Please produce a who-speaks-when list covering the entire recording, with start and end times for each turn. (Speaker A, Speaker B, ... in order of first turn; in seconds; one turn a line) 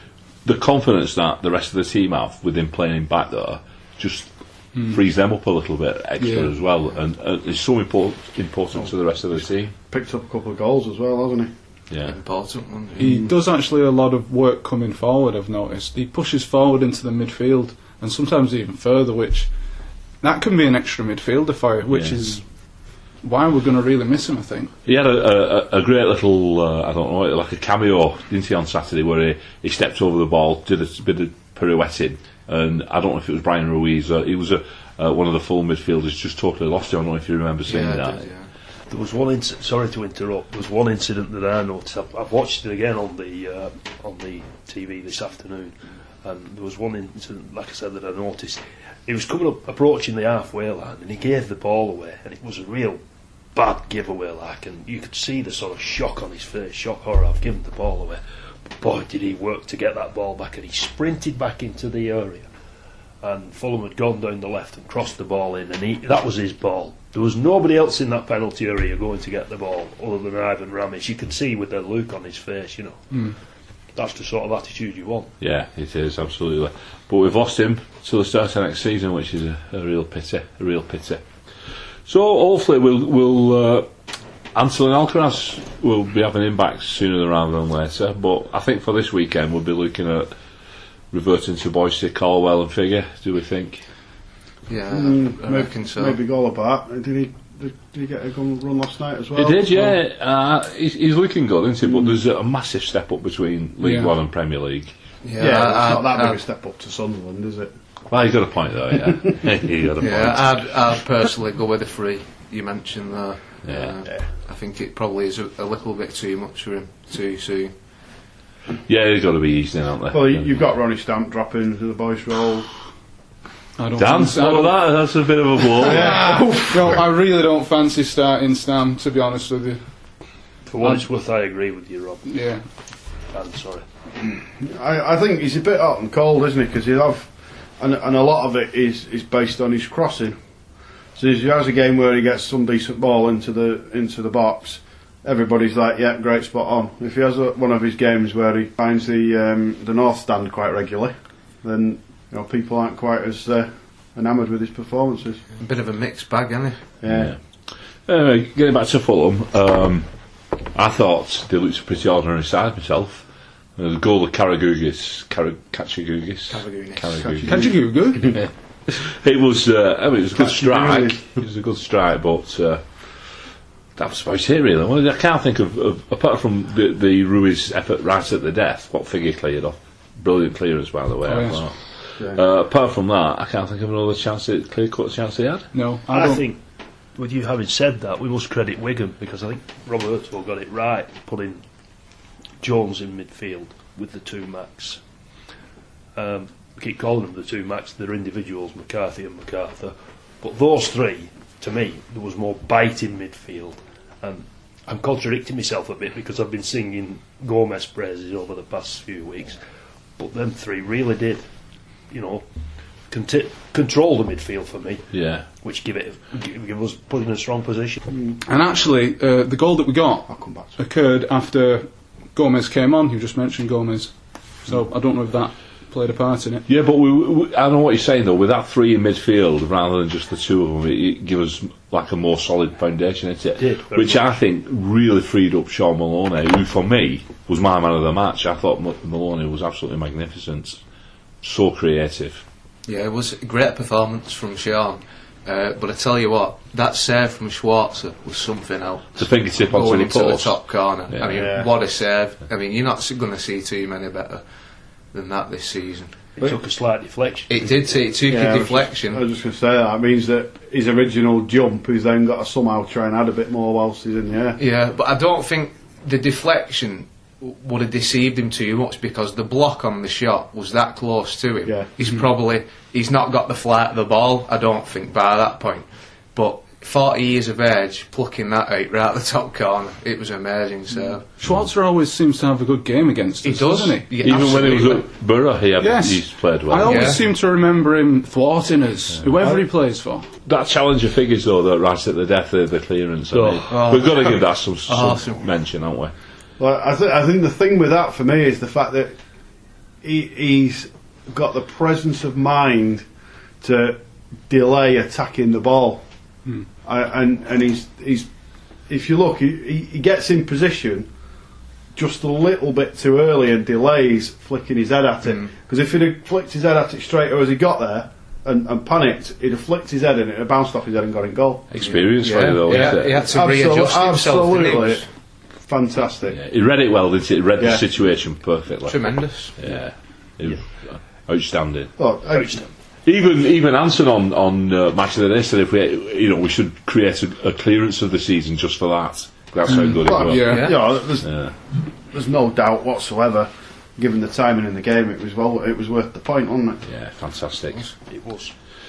Speaker A: 0.4-9.7
Speaker B: 6.2-6.5
Speaker C: 9.9-11.5
Speaker D: 12.0-13.1
Speaker C: 13.0-13.3
Speaker B: 13.0-19.5
Speaker B: 20.2-22.4
Speaker A: 21.9-22.2
Speaker B: 23.2-24.7
Speaker A: 24.8-38.2
Speaker D: 37.6-38.5
Speaker E: 38.9-53.0
Speaker E: 53.5-58.2
Speaker E: 58.8-62.5
Speaker E: 63.2-73.2
Speaker E: 73.9-75.3
Speaker A: 75.4-81.2
Speaker A: 82.0-83.9
Speaker A: 84.5-90.3
Speaker A: 91.1-93.8
Speaker D: 94.7-96.2
Speaker C: 94.9-100.0
Speaker A: 99.4-104.9
Speaker C: 101.8-102.1
Speaker B: 103.8-104.1
Speaker D: 105.2-106.4
Speaker C: 105.4-107.7
Speaker A: 108.1-110.5
Speaker D: 110.0-117.7
Speaker A: 113.7-113.9
Speaker A: 118.9-120.5
Speaker C: 120.1-122.7
Speaker B: 123.8-124.8
Speaker A: 124.0-126.2
Speaker C: 125.7-126.9
Speaker B: 125.9-129.8
Speaker E: 130.7-132.3
Speaker B: 132.3-132.6
Speaker E: 133.3-133.8
Speaker C: 134.3-140.4
Speaker C: 141.2-155.4
Speaker D: 155.6-156.8
Speaker C: 157.0-157.3
Speaker A: 157.1-157.4
Speaker A: 158.1-160.1
Speaker A: 160.7-163.2
Speaker A: 163.8-167.7
Speaker D: 166.5-167.6
Speaker B: 167.4-168.4
Speaker C: 167.6-168.4
Speaker A: 168.2-172.8
Speaker C: 170.3-171.2
Speaker A: 174.0-185.7
Speaker B: 181.2-181.6
Speaker B: 185.7-186.5
Speaker E: 186.1-186.6
Speaker E: 187.2-191.6
Speaker E: 192.6-195.0
Speaker E: 196.1-209.6
Speaker E: 210.2-211.4
Speaker E: 212.1-212.4
Speaker E: 213.1-218.0
Speaker A: 215.1-215.5
Speaker B: 218.4-226.7
Speaker C: 220.3-220.8
Speaker A: 226.7-240.8
Speaker E: 233.6-234.3
Speaker A: 241.4-242.4
Speaker D: 242.8-254.4
Speaker A: 249.2-250.5
Speaker A: 251.1-251.4
Speaker C: 251.3-251.7
Speaker D: 255.1-256.3
Speaker E: 256.4-257.5
Speaker D: 257.5-259.2
Speaker C: 258.3-264.6
Speaker D: 264.6-281.2
Speaker B: 281.4-284.0
Speaker D: 283.4-285.1
Speaker A: 284.2-287.2
Speaker B: 285.8-290.3
Speaker D: 286.8-287.2
Speaker A: 290.4-296.1
Speaker E: 293.3-293.7
Speaker D: 293.7-295.4
Speaker C: 296.6-299.1
Speaker C: 300.0-303.0
Speaker C: 303.6-306.0
Speaker C: 306.8-308.3
Speaker C: 308.9-311.1
Speaker C: 311.9-321.7
Speaker A: 321.7-323.2
Speaker D: 321.8-325.1
Speaker C: 322.7-325.0
Speaker C: 325.6-326.4
Speaker A: 326.3-329.0
Speaker C: 327.6-327.9
Speaker D: 328.9-329.5
Speaker A: 329.6-331.9
Speaker C: 332.0-332.6
Speaker E: 332.3-332.7
Speaker A: 333.0-341.5
Speaker B: 339.7-340.7
Speaker C: 339.8-341.5
Speaker D: 340.5-340.8
Speaker C: 342.1-346.8
Speaker A: 346.9-347.9
Speaker E: 348.1-348.5